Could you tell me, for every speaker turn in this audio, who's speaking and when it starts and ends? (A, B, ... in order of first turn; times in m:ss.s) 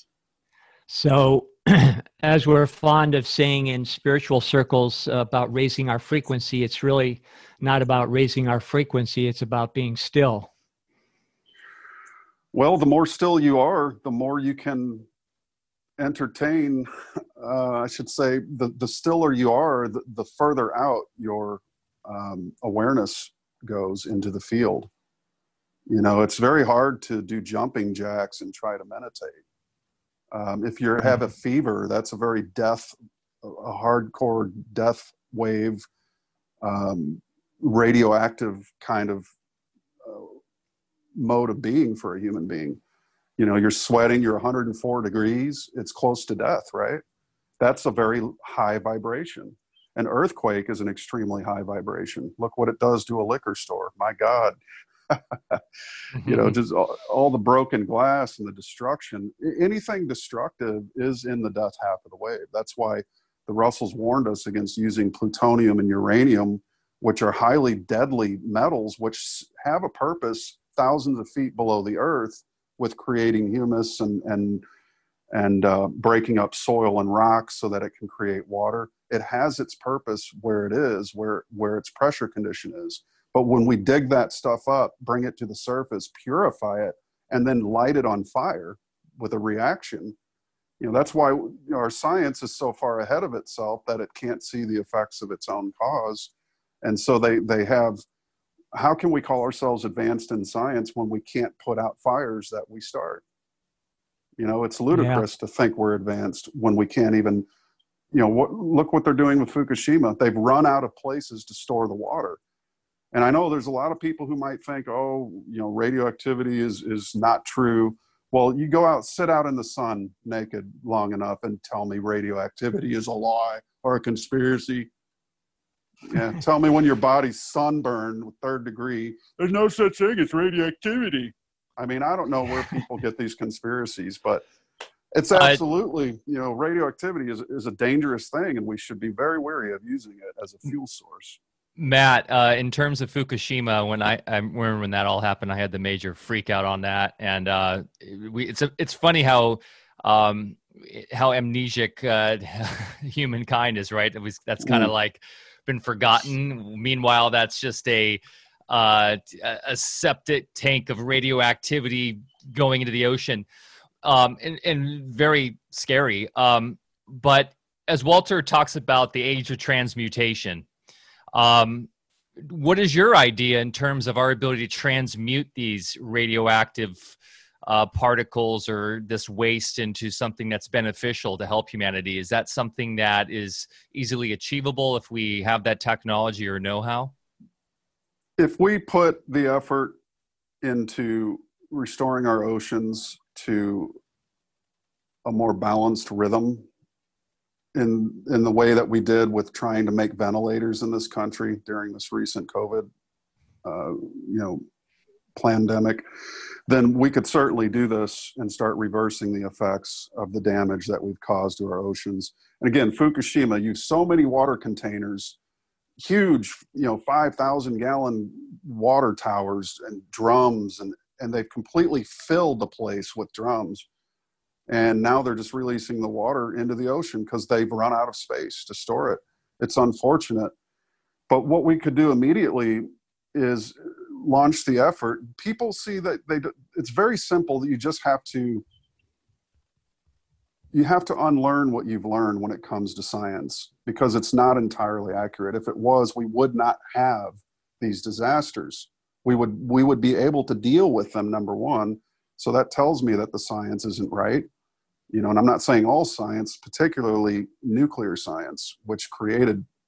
0:00.9-0:10.5 A
0:12.5-0:15.0 B
0:16.0-0:24.9 B
0:25.9-0:29.4 B
0:30.3-0:35.8 B
0:36.6-0:39.3 B
0:40.0-0:40.3 B
0:41.2-0:42.8 B
0:43.4-0:47.0 B
0:47.6-0:54.6 B
0:55.1-0:55.6 B
0:56.2-0:56.5 C
0:56.2-1:14.6 B
1:15.3-1:30.2 B
1:30.8-1:36.3 B
1:36.8-1:38.0 B
1:38.7-1:43.2 B
1:44.4-1:47.5 B
1:44.9-1:45.2 A
1:48.1-1:52.4 B
1:53.1-2:04.9 B
2:06.1-2:14.4 B
2:15.1-2:21.4 B
2:15.3-2:15.6 C
2:21.8-2:43.4 C
2:34.6-2:34.9 B
2:44.0-2:50.6 C
2:51.3-2:51.9 C
2:52.4-2:57.1 C
2:57.6-3:07.1 C
3:08.4-3:10.0 B
3:10.6-3:14.0 B
3:15.2-3:16.6 B
3:17.7-3:22.9 B
3:23.6-3:24.6 B
3:25.4-3:26.0 B
3:26.7-3:35.4 B
3:36.0-3:43.9 B
3:44.7-3:50.5 B
3:51.3-3:58.6 B
4:00.7-4:14.5 B
4:15.1-4:19.6 B